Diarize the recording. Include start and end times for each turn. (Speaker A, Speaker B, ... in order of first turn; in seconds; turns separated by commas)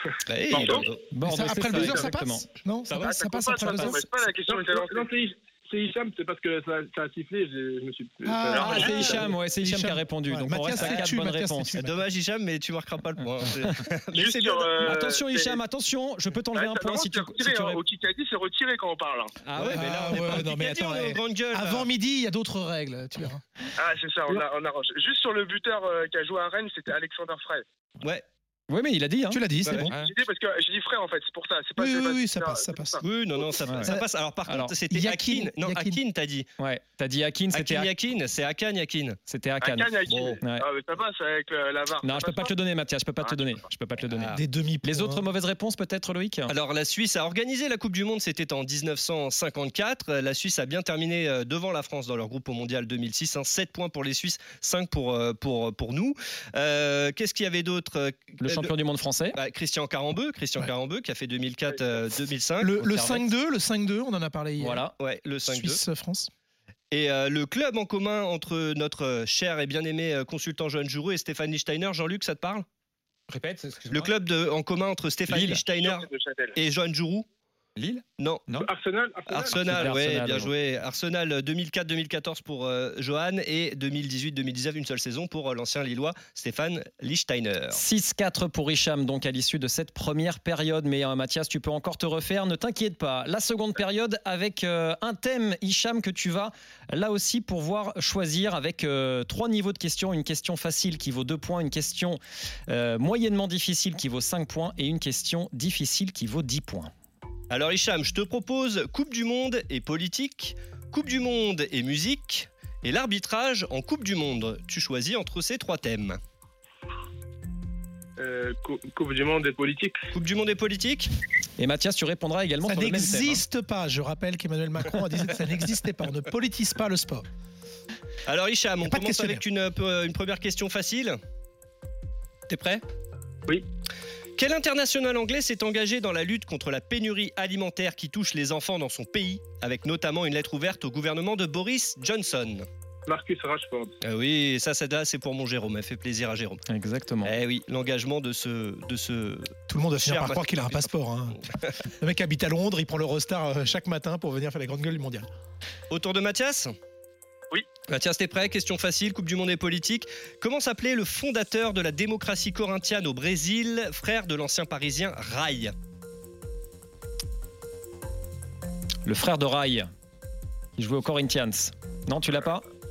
Speaker A: 0.3-1.1, Speaker B: 0.5-0.9, Speaker C: 1.1-2.5, Speaker D: 1.2-4.2, Speaker B: 3.0-5.1, Speaker E: 4.5-9.2, Speaker D: 8.3-12.0, Speaker B: 8.5-8.9, Speaker C: 8.6-11.8, Speaker A: 10.8-11.2, Speaker A: 11.8-14.9, Speaker B: 14.1-15.6, Speaker C: 14.8-17.8, Speaker B: 16.6-19.3, Speaker A: 19.5-21.9, Speaker D: 19.6-23.4, Speaker B: 23.8-27.6, Speaker C: 28.7-29.8, Speaker D: 29.3-30.1, Speaker A: 29.6-29.9, Speaker B: 30.0-33.0, Speaker D: 31.8-33.0, Speaker A: 33.0-36.5, Speaker C: 33.7-33.9, Speaker C: 34.5-34.8, Speaker D: 34.9-36.0, Speaker C: 36.6-37.9, Speaker A: 37.5-39.2, Speaker C: 39.3-40.7, Speaker B: 39.6-42.5, Speaker A: 40.1-40.4, Speaker C: 42.0-46.5, Speaker A: 44.1-44.4, Speaker D: 44.3-45.3, Speaker A: 46.5-58.7, Speaker C: 58.4-59.4, Speaker A: 59.4-62.7, Speaker D: 62.6-64.9, Speaker C: 62.8-63.3, Speaker C: 64.6-64.9, Speaker A: 65.0-65.8, Speaker D: 65.5-66.3, Speaker A: 66.9-72.7, Speaker C: 73.3-74.1, Speaker A: 73.9-77.3, Speaker C: 75.3-75.6, Speaker B: 75.8-76.6, Speaker C: 77.8-78.7, Speaker A: 78.2-78.5, Speaker E: 78.6-79.7, Speaker A: 79.3-87.8, Speaker C: 79.6-80.5, Speaker C: 87.7-106.9, Speaker A: 107.5-116.2, Speaker E: 118.2-120.1, Speaker A: 120.1-121.1, Speaker C: 121.6-123.4, Speaker D: 122.6-127.2, Speaker A: 128.3-131.2, Speaker D: 128.8-129.4, Speaker A: 132.5-132.8, Speaker A: 134.4-142.7, Speaker E: 143.1-143.9, Speaker A: 144.0-146.6, Speaker C: 146.7-147.3, Speaker A: 147.2-150.9, Speaker D: 149.7-155.3, Speaker A: 155.9-156.7, Speaker A: 157.9-165.7, Speaker C: 169.1-169.9, Speaker C: 170.8-172.6